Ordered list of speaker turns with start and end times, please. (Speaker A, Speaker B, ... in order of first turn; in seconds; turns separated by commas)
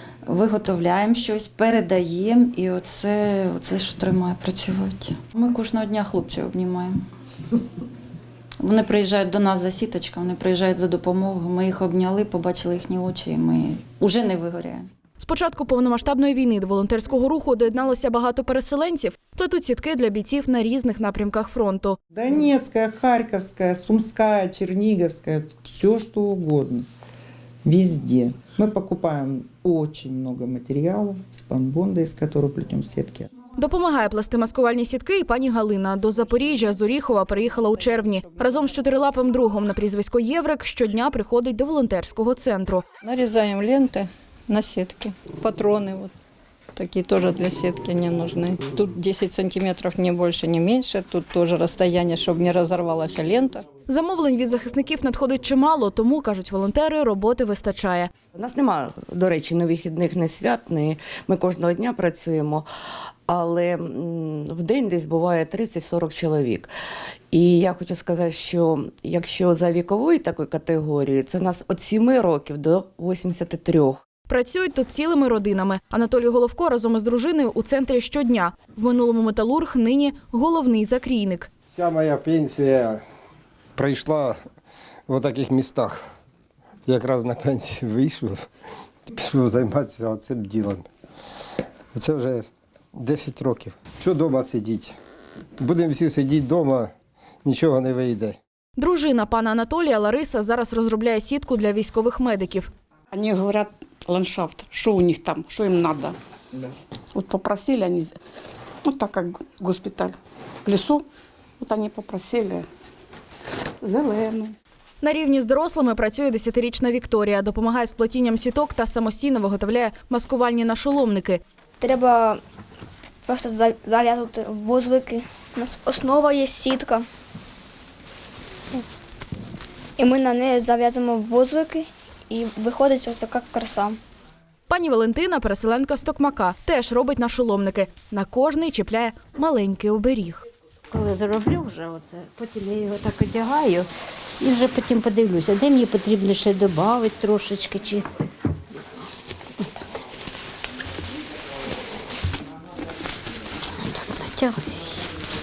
Speaker A: 0.3-7.0, Speaker A: 8.6-14.9, Speaker B: 15.2-22.0, Speaker C: 22.1-26.9, Speaker C: 27.6-33.3, Speaker B: 33.6-42.8, Speaker D: 36.4-39.2, Speaker D: 43.0-46.1, Speaker D: 46.8-53.6, Speaker B: 53.9-58.1, Speaker E: 58.3-62.6, Speaker E: 63.3-66.7, Speaker E: 67.3-74.0, Speaker B: 74.3-81.5, Speaker F: 81.7-83.0, Speaker F: 83.8-84.4, Speaker F: 85.1-86.0, Speaker F: 86.9-88.4, Speaker F: 89.1-90.9, Speaker F: 92.0-94.9, Speaker F: 95.6-96.9, Speaker F: 97.5-98.4, Speaker B: 98.8-102.7, Speaker G: 103.1-106.2, Speaker G: 107.1-108.2, Speaker G: 108.8-111.1, Speaker G: 111.6-112.7, Speaker G: 113.8-114.6, Speaker B: 115.0-121.4, Speaker H: 121.8-122.4, Speaker H: 123.2-127.0, Speaker H: 130.0-134.0, Speaker B: 134.7-140.4, Speaker I: 140.9-143.9, Speaker I: 144.4-148.0, Speaker I: 149.6-149.9, Speaker I: 153.8-155.0